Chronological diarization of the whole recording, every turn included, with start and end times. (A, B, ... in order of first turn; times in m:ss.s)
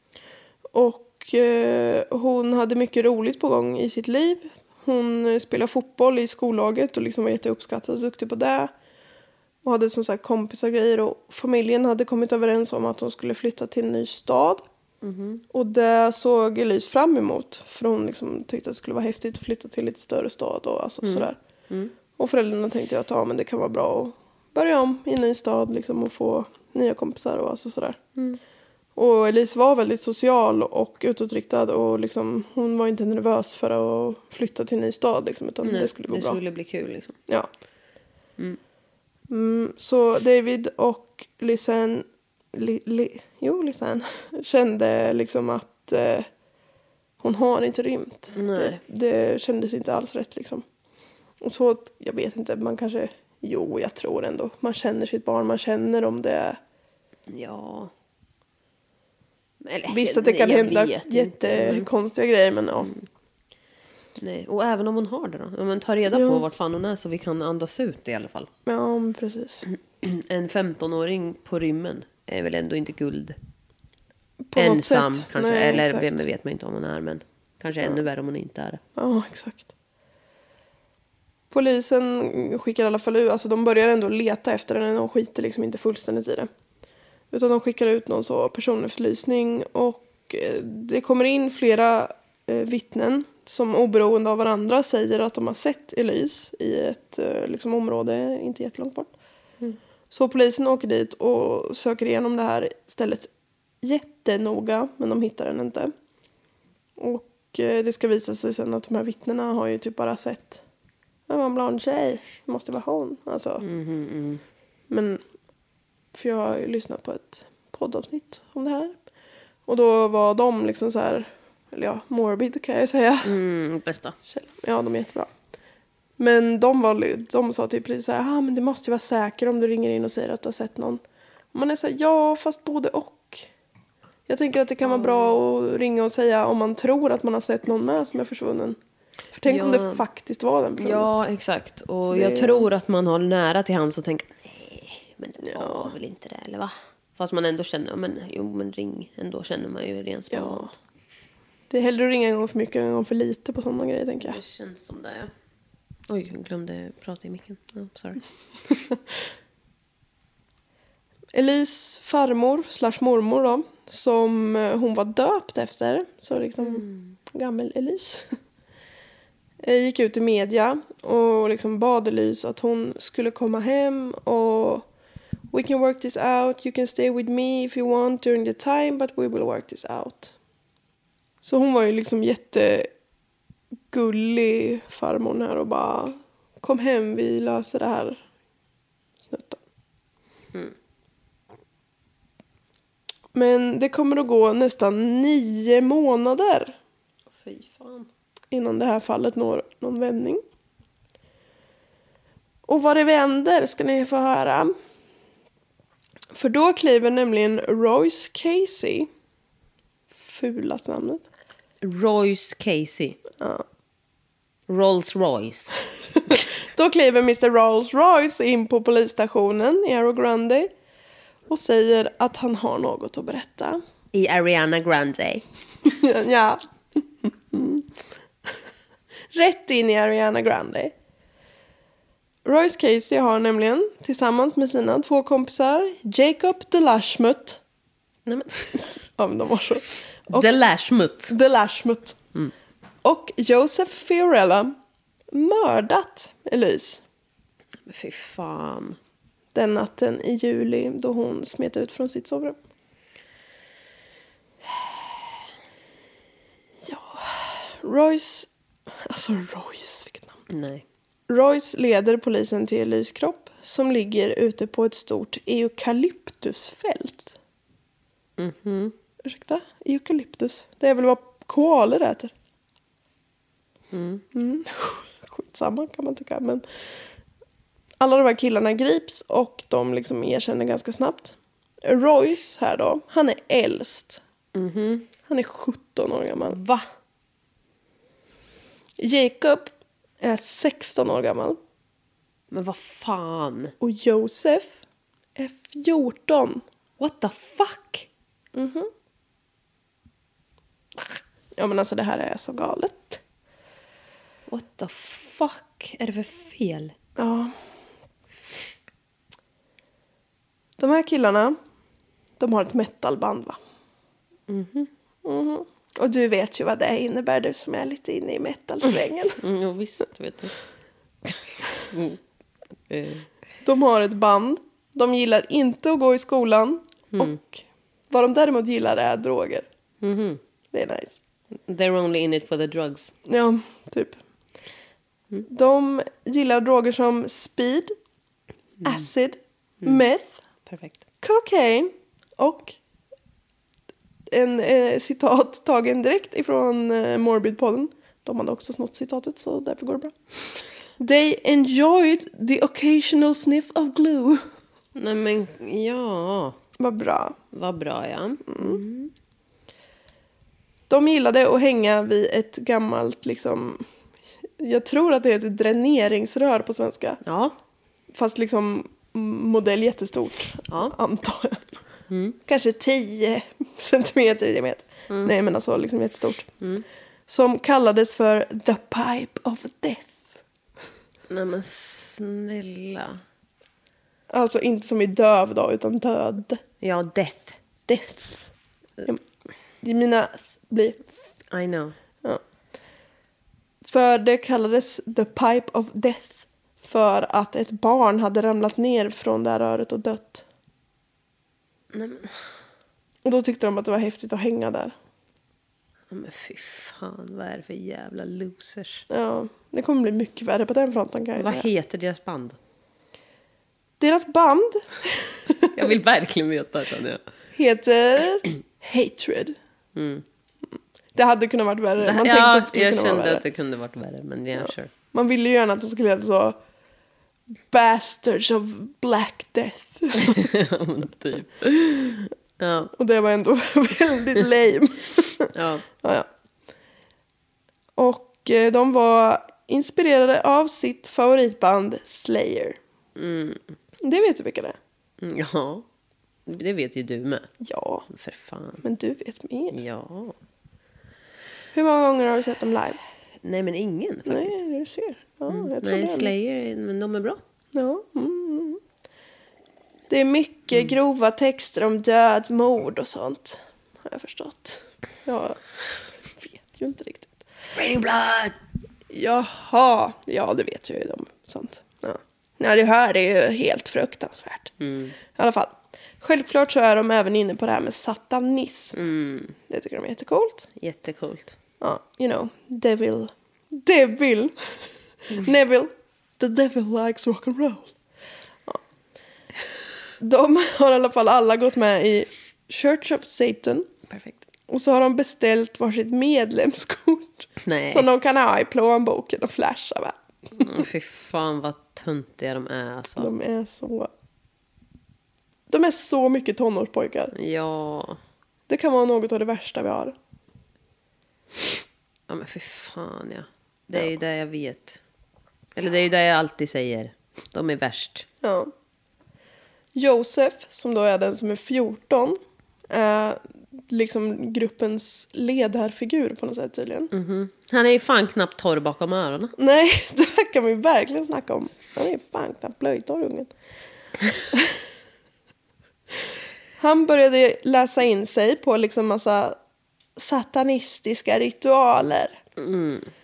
0:00.7-0:08.7 A
0:09.6-0:14.6 A
0:15.0-0:15.4 B
0:15.5-0:21.4 A
0:21.0-0:21.9 B
0:22.2-0:28.0 A
0:29.0-0:36.4 A
0:35.6-0:37.2 B
0:39.3-0:46.3 A
0:47.2-0:50.6 A
0:48.4-0:48.8 B
0:51.4-0:56.6 A
0:57.3-0:57.9 B
0:59.6-1:01.9 B
0:59.9-1:02.9 A
1:02.8-1:03.0 B
1:04.2-1:08.5 B
1:06.1-1:06.4 A
1:08.7-1:09.7 A
1:09.7-1:13.4 B
1:14.5-1:16.2 A
1:14.6-1:18.8 B
1:19.0-1:19.7 A
1:21.5-1:26.5 A
1:27.3-1:39.1 A
1:40.1-1:43.3 A
1:43.8-1:45.9 A
1:47.0-1:50.6 A
1:51.3-1:53.6 A
1:53.6-1:54.4 B
1:54.9-1:55.2 A
1:56.1-1:59.0 A
1:59.7-2:03.4 A
2:03.2-2:04.2 B
2:04.3-2:05.3 A
2:06.2-2:11.0 A
2:11.5-2:13.5 A
2:14.3-2:18.8 A
2:14.8-2:15.4 B
2:19.3-2:21.1 A
2:19.4-2:20.0 B
2:20.8-2:30.7 B
2:22.0-2:22.7 A
2:25.4-2:25.9 A
2:30.3-2:30.7 A
2:31.7-2:34.4 A
2:34.2-2:35.3 B
2:36.1-2:38.2 B
2:41.3-2:48.3 A
2:46.6-2:47.1 B
2:49.6-2:54.9 A
2:55.5-3:00.3 A
3:01.4-3:02.9 A
3:03.9-3:08.2 A
3:09.3-3:09.6 A
3:13.3-3:16.8 A
3:17.4-3:18.1 B
3:18.5-3:20.4 A
3:22.7-3:24.8 A
3:26.3-3:29.1 A
3:30.2-3:31.2 A
3:31.8-3:33.2 B
3:33.4-3:33.6 A
3:34.7-3:35.8 B
3:36.3-3:40.7 A
3:41.5-3:43.8 A
3:44.1-3:45.4 B
3:45.8-3:46.6 A
3:47.5-3:47.8 A
3:49.3-3:50.9 A
3:52.4-3:57.6 A
3:58.3-3:58.8 B
3:59.2-4:00.5 A
4:00.3-4:01.3 B
4:01.3-4:02.2 A
4:03.0-4:04.8 A
4:05.3-4:07.0 A
4:07.9-4:09.0 B
4:09.6-4:12.6 A
4:16.8-4:18.5 A
4:19.0-4:20.3 A
4:20.5-4:20.8 B
4:21.3-4:27.4 A
4:28.4-4:29.0 B
4:29.2-4:32.3 A
4:33.9-4:34.2 B
4:34.3-4:36.6 A
4:38.0-4:44.2 A
4:44.6-4:45.1 B
4:45.3-4:46.6 A
4:46.4-4:46.8 B
4:49.0-4:49.7 A
4:50.2-4:51.6 A
4:52.5-4:53.7 B
4:53.8-4:54.8 A
4:55.4-4:56.6 A
4:57.0-4:58.1 B
4:58.6-4:58.9 A
5:01.6-5:03.2 A
5:04.5-5:06.9 B
5:07.2-5:07.6 A
5:10.8-5:11.6 A
5:12.4-5:13.6 A
5:14.5-5:14.9 B
5:15.2-5:19.4 A
5:19.4-5:20.5 B
5:21.9-5:22.2 B
5:22.9-5:23.3 B
5:23.6-5:29.7 A
5:30.0-5:30.4 B
5:30.7-5:31.1 A
5:31.6-5:33.1 B
5:33.3-5:34.2 A
5:35.5-5:38.0 A
5:38.8-5:40.4 A
5:40.7-5:41.0 B
5:41.2-5:42.8 A
5:44.3-5:50.1 A
5:51.0-5:54.5 A
5:55.0-5:56.6 B
5:56.8-5:57.4 A
5:57.5-5:59.1 B
5:58.5-5:58.8 A
6:00.9-6:03.8 A
6:04.6-6:07.2 A
6:07.2-6:07.6 B
6:08.1-6:11.7 A
6:10.7-6:11.0 B
6:12.1-6:12.4 B
6:12.5-6:16.5 A
6:17.3-6:20.2 A
6:21.3-6:23.2 B
6:24.3-6:26.6 A
6:26.8-6:27.6 B
6:27.9-6:28.5 A
6:29.8-6:31.0 A
6:31.5-6:32.0 B
6:33.8-6:40.4 A
6:41.9-6:42.4 B
6:43.2-6:44.9 A
6:46.1-6:49.0 B
6:49.1-6:51.7 A
6:51.4-6:52.6 B
6:54.0-6:55.9 A
6:55.7-6:57.2 B
6:57.6-6:59.6 A
7:00.0-7:00.2 B
7:01.2-7:03.4 A
7:02.0-7:04.9 B
7:04.6-7:06.6 A
7:07.7-7:10.5 A
7:10.2-7:12.9 B
7:13.0-7:15.5 A
7:15.5-7:15.8 B
7:16.0-7:16.3 A
7:18.0-7:22.8 A
7:23.2-7:23.8 B
7:24.0-7:24.8 A
7:25.2-7:25.8 B
7:26.5-7:27.5 B
7:27.6-7:28.1 A
7:28.1-7:28.8 B
7:28.8-7:29.8 A
7:29.7-7:30.4 B
7:31.7-7:33.0 A
7:33.4-7:34.6 B
7:34.3-7:36.3 A
7:35.5-7:37.4 B
7:37.7-7:38.8 A
7:40.1-7:45.7 A
7:46.4-7:47.4 A
7:47.8-7:48.6 B
7:49.1-7:54.7 A
7:54.8-7:55.2 B
7:55.3-7:59.0 A
7:59.0-7:59.6 B
7:59.7-8:00.7 A
8:00.8-8:01.6 B
8:01.8-8:04.6 A
8:05.3-8:07.9 A
8:10.2-8:13.9 A
8:14.1-8:14.4 B
8:14.7-8:20.2 A
8:17.6-8:18.1 B
8:20.6-8:23.3 B
8:23.2-8:24.1 A
8:25.7-8:27.3 A
8:27.3-8:28.2 B
8:28.7-8:30.2 A
8:32.3-8:35.0 B
8:35.8-8:38.3 B
8:38.4-8:38.7 A
8:40.0-8:42.4 A
8:42.9-8:47.1 A
8:47.1-8:49.5 B
8:49.6-8:53.5 A
8:56.8-8:59.6 A
9:00.2-9:02.4 A
9:02.6-9:03.1 B